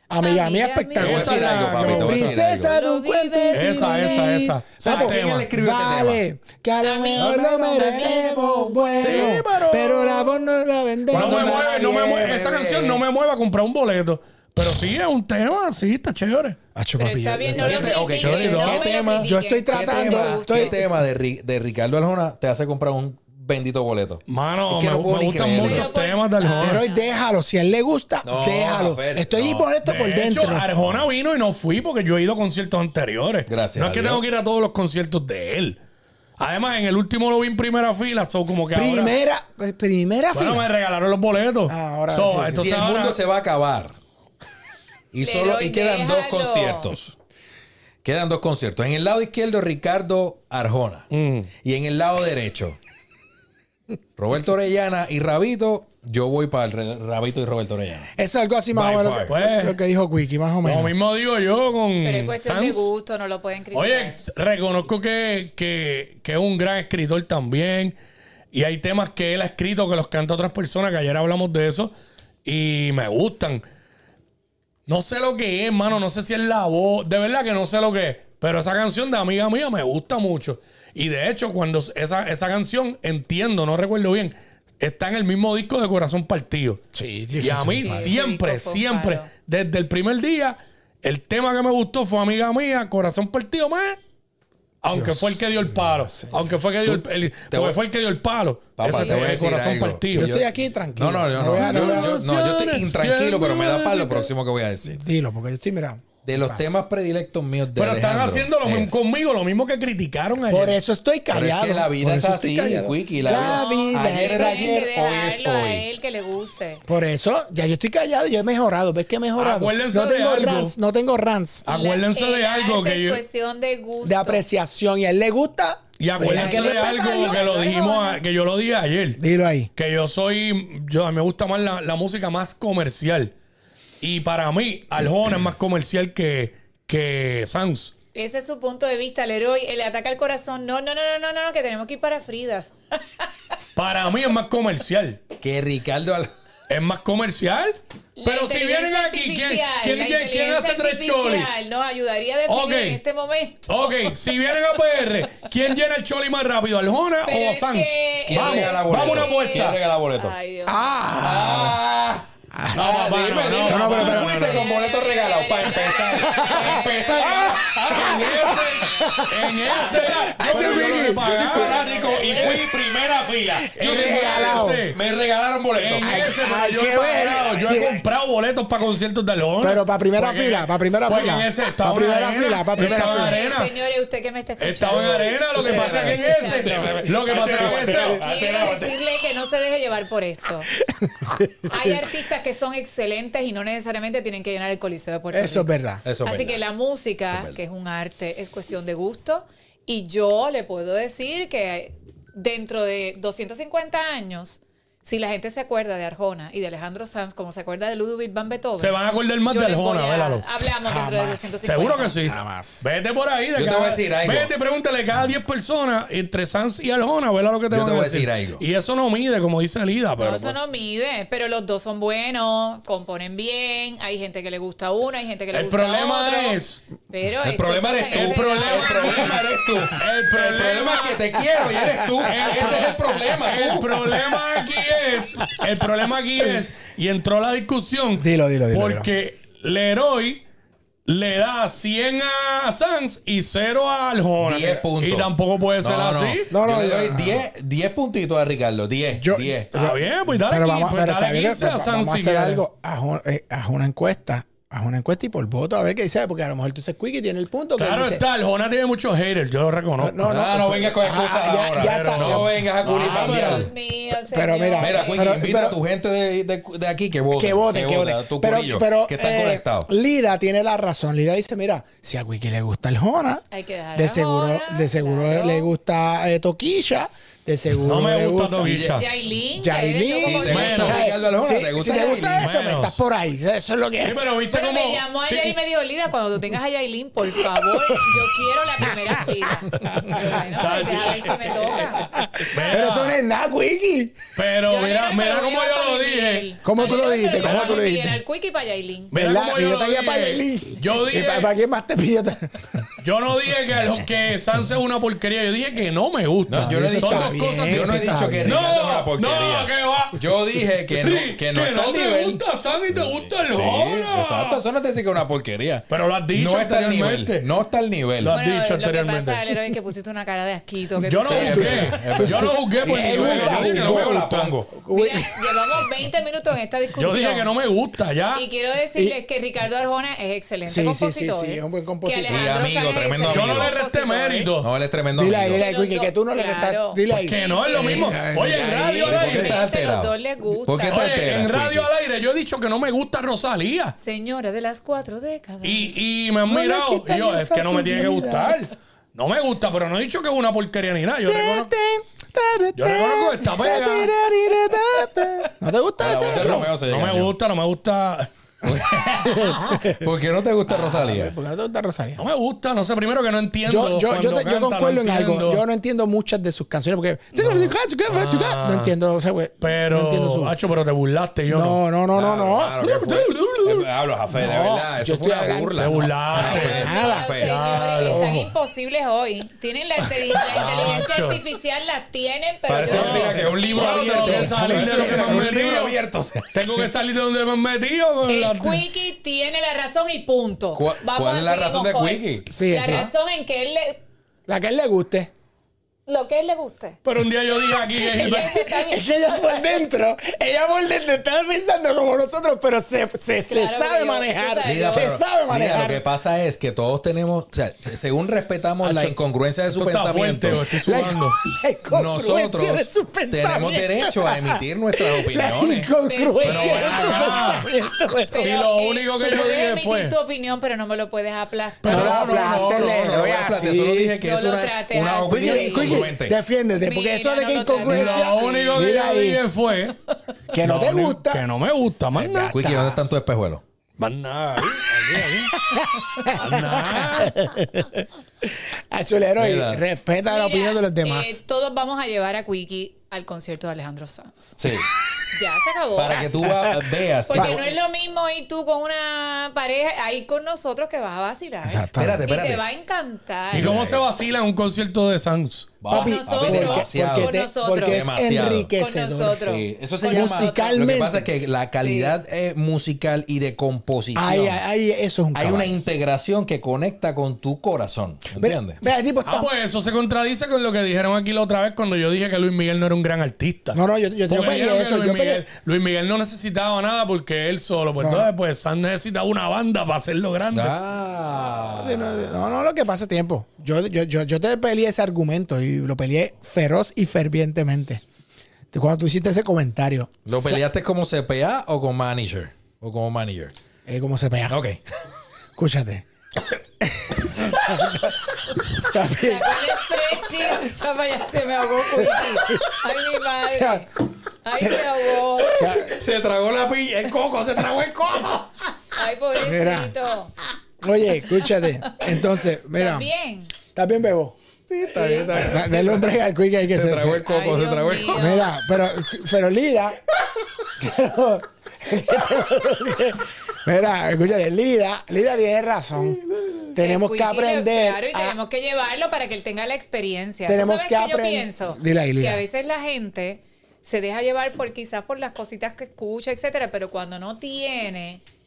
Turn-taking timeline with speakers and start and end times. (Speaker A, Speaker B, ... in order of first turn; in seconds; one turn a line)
Speaker A: 0.1-11.7
Speaker B: 0.2-1.5
Speaker C: 1.0-2.4
Speaker D: 1.0-2.8
Speaker B: 2.5-4.3
Speaker C: 3.5-5.5
Speaker D: 4.8-6.2
Speaker B: 6.8-7.4
Speaker D: 7.2-9.4
Speaker C: 9.0-10.4
Speaker D: 11.1-13.0
Speaker C: 11.1-16.6
Speaker A: 16.8-18.1
Speaker B: 17.0-20.8
Speaker D: 17.5-25.9
Speaker C: 18.1-18.9
Speaker A: 19.2-20.9
Speaker C: 24.3-26.8
Speaker B: 25.5-27.1
Speaker A: 26.6-30.7
Speaker D: 28.2-29.7
Speaker C: 29.8-35.8
Speaker D: 33.5-34.2
Speaker C: 36.4-39.1
Speaker A: 38.7-40.7
Speaker C: 40.3-43.2
Speaker A: 41.7-42.9
Speaker D: 42.5-44.0
Speaker D: 45.1-47.2
Speaker B: 45.2-46.9
Speaker D: 48.0-51.1
Speaker C: 51.1-51.5
Speaker D: 51.6-52.8
Speaker D: 54.2-58.1
Speaker A: 58.2-60.9
Speaker D: 58.7-59.4
Speaker C: 59.3-59.8
Speaker C: 60.6-62.9
Speaker B: 62.0-64.2
Speaker C: 63.7-68.0
Speaker C: 68.5-71.9
Speaker C: 72.5-73.6
Speaker C: 74.9-86.8
Speaker A: 86.9-88.1
Speaker C: 87.4-94.0
Speaker B: 87.8-89.3
Speaker C: 94.8-100.3
Speaker A: 94.9-96.4
Speaker D: 96.8-97.8
Speaker D: 98.8-105.0
Speaker A: 100.1-102.2
Speaker C: 101.6-104.3
Speaker A: 104.8-106.8
Speaker D: 106.2-109.0
Speaker C: 107.8-110.8
Speaker A: 110.5-114.9
Speaker D: 111.3-115.8
Speaker B: 113.2-116.8
Speaker A: 116.9-121.7
Speaker C: 119.4-120.7
Speaker C: 121.7-123.2
Speaker B: 121.7-124.4
Speaker A: 124.0-127.4
Speaker C: 126.0-129.2
Speaker B: 126.2-128.2
Speaker A: 129.2-129.7
Speaker C: 129.8-133.3
Speaker C: 134.0-137.9
Speaker B: 138.1-143.3
Speaker C: 143.8-145.2
Speaker D: 145.4-146.3
Speaker C: 146.7-151.5
Speaker B: 148.2-154.1
Speaker C: 152.5-153.0
Speaker C: 153.7-159.8
Speaker B: 157.2-160.9
Speaker D: 158.3-160.3
Speaker A: 160.7-161.8
Speaker D: 161.2-168.8
Speaker A: 162.5-163.1
Speaker C: 162.7-164.7
Speaker A: 163.6-164.5
Speaker B: 164.3-167.6
Speaker A: 166.3-171.4
Speaker C: 167.7-172.8
Speaker D: 170.3-176.3
Speaker B: 171.5-172.7
Speaker A: 173.6-174.8
Speaker C: 173.7-175.0
Speaker C: 175.8-183.7
Speaker A: 176.0-178.0
Speaker D: 177.2-177.6
Speaker A: 179.6-183.4
Speaker B: 182.8-190.7
Speaker C: 184.6-188.8
Speaker D: 184.9-189.0
Speaker A: 190.8-192.0
Speaker B: 191.7-195.7
Speaker A: 195.3-196.0
Speaker D: 196.0-196.6
Speaker B: 196.2-209.0
Speaker D: 197.3-197.6
Speaker C: 208.8-210.5
Speaker B: 209.5-212.2
Speaker A: 210.8-211.6
Speaker C: 211.6-220.6
Speaker A: 212.2-212.8
Speaker D: 213.6-214.5
Speaker D: 217.7-218.6
Speaker B: 220.2-229.4
Speaker C: 225.5-226.8
Speaker D: 227.4-233.9
Speaker C: 228.1-231.3
Speaker C: 232.2-240.4
Speaker A: 234.2-234.4
Speaker A: 238.2-239.1
Speaker C: 241.1-246.5
Speaker D: 244.4-245.3
Speaker D: 245.8-249.8
Speaker A: 246.5-247.5
Speaker A: 249.2-258.2
Speaker C: 249.8-252.6
Speaker C: 257.8-260.2
Speaker A: 260.0-262.6
Speaker D: 260.2-263.7
Speaker C: 261.8-263.7
Speaker B: 262.9-265.4
Speaker A: 264.3-265.8
Speaker D: 264.8-269.9
Speaker A: 267.3-273.4
Speaker B: 273.5-275.7
Speaker A: 273.9-278.9
Speaker C: 277.8-279.1
Speaker D: 278.6-279.0
Speaker B: 278.9-281.1
Speaker A: 279.6-284.3
Speaker D: 280.2-282.5
Speaker C: 280.5-281.1
Speaker C: 282.3-283.0
Speaker C: 284.0-285.6
Speaker B: 284.5-292.9
Speaker A: 289.2-289.6
Speaker C: 289.8-291.5
Speaker A: 290.1-290.8
Speaker A: 292.1-294.2
Speaker C: 292.4-293.2
Speaker C: 294.4-297.9
Speaker B: 294.7-299.1
Speaker A: 296.6-298.2
Speaker C: 299.1-301.5
Speaker A: 299.1-302.9
Speaker C: 303.0-310.2
Speaker D: 306.5-318.4
Speaker A: 306.5-308.6
Speaker C: 311.0-314.6
Speaker C: 315.9-317.5
Speaker C: 318.2-319.6
Speaker B: 318.3-321.9
Speaker C: 321.0-324.6
Speaker D: 321.2-324.7
Speaker A: 321.4-325.9
Speaker B: 324.9-327.5
Speaker C: 327.0-328.4
Speaker B: 328.3-334.5
Speaker A: 330.7-332.6
Speaker D: 332.3-333.7
Speaker C: 333.3-334.7
Speaker D: 334.6-335.6
Speaker A: 335.1-338.9
Speaker B: 335.6-341.2
Speaker C: 337.1-339.6
Speaker D: 338.7-341.9
Speaker C: 340.9-344.0
Speaker B: 344.0-345.9
Speaker C: 345.6-351.7
Speaker A: 346.5-348.6
Speaker A: 351.3-356.7
Speaker C: 352.8-354.4
Speaker D: 356.0-357.3
Speaker C: 356.3-358.3
Speaker D: 358.6-361.4
Speaker A: 359.2-360.1
Speaker A: 360.7-362.2
Speaker C: 362.2-365.6
Speaker A: 363.7-370.6
Speaker C: 367.4-368.9
Speaker C: 369.6-371.8
Speaker A: 371.5-372.8
Speaker D: 372.1-377.6
Speaker C: 372.8-373.9
Speaker A: 374.3-377.3
Speaker C: 375.8-378.4
Speaker B: 376.4-384.4
Speaker A: 378.0-378.5
Speaker C: 380.4-381.4
Speaker D: 380.6-381.0
Speaker D: 382.7-386.8
Speaker C: 382.9-386.0
Speaker A: 383.8-385.6
Speaker C: 386.5-388.8
Speaker B: 388.3-394.0
Speaker D: 390.8-393.1
Speaker A: 392.5-393.1
Speaker A: 394.5-395.3
Speaker B: 396.1-397.0
Speaker C: 397.1-398.6
Speaker A: 397.8-406.1
Speaker B: 398.1-399.8
Speaker B: 403.5-405.2
Speaker D: 404.6-410.7
Speaker C: 408.8-409.2
Speaker C: 409.7-411.4
Speaker A: 410.6-418.5
Speaker D: 411.9-415.9
Speaker B: 416.1-417.6
Speaker C: 416.4-417.7
Speaker C: 418.3-420.1
Speaker B: 418.3-423.0
Speaker C: 421.8-422.2
Speaker A: 421.9-424.2
Speaker D: 421.9-426.4
Speaker B: 424.2-426.1
Speaker A: 425.3-429.4
Speaker B: 426.8-428.9
Speaker C: 427.8-430.0
Speaker A: 430.5-431.4
Speaker C: 430.6-432.5
Speaker A: 432.1-433.0
Speaker D: 432.5-433.6
Speaker C: 434.0-435.6
Speaker A: 435.6-441.4
Speaker C: 436.2-437.4
Speaker D: 439.4-439.8
Speaker B: 440.3-444.6
Speaker D: 444.6-444.9
Speaker B: 445.3-446.3
Speaker D: 445.9-447.7
Speaker A: 446.4-446.8
Speaker B: 447.3-453.8
Speaker A: 447.3-447.6
Speaker A: 451.6-452.2
Speaker D: 452.0-452.6
Speaker C: 453.5-455.8
Speaker D: 453.5-454.1
Speaker D: 455.8-458.7
Speaker A: 455.9-459.5
Speaker B: 455.9-458.1
Speaker B: 458.8-460.8
Speaker D: 459.4-464.6
Speaker A: 460.1-461.3
Speaker B: 461.8-462.1
Speaker A: 464.1-465.8
Speaker D: 465.3-468.8
Speaker A: 468.4-469.5
Speaker C: 469.2-480.8
Speaker A: 473.7-475.4
Speaker A: 478.0-478.3
Speaker D: 480.5-482.4
Speaker A: 481.7-488.0
Speaker A: 488.7-490.6
Speaker D: 490.3-493.5
Speaker A: 493.9-494.6
Speaker D: 494.5-494.8
Speaker A: 495.6-496.1
Speaker A: 496.8-498.3
Speaker A: 498.8-499.8
Speaker B: 499.1-503.9
Speaker A: 501.9-502.9
Speaker A: 503.4-503.9
Speaker B: 504.4-505.7
Speaker A: 504.5-506.0
Speaker D: 505.6-508.5
Speaker B: 508.9-510.4
Speaker A: 509.4-509.9
Speaker A: 510.8-513.1
Speaker B: 511.9-513.5
Speaker A: 513.8-514.4
Speaker D: 514.7-518.5
Speaker B: 514.9-515.4
Speaker A: 515.3-517.3
Speaker B: 517.3-518.6
Speaker A: 518.0-520.0
Speaker A: 520.6-526.2
Speaker A: 526.7-528.4
Speaker B: 526.8-538.2
Speaker A: 530.5-532.4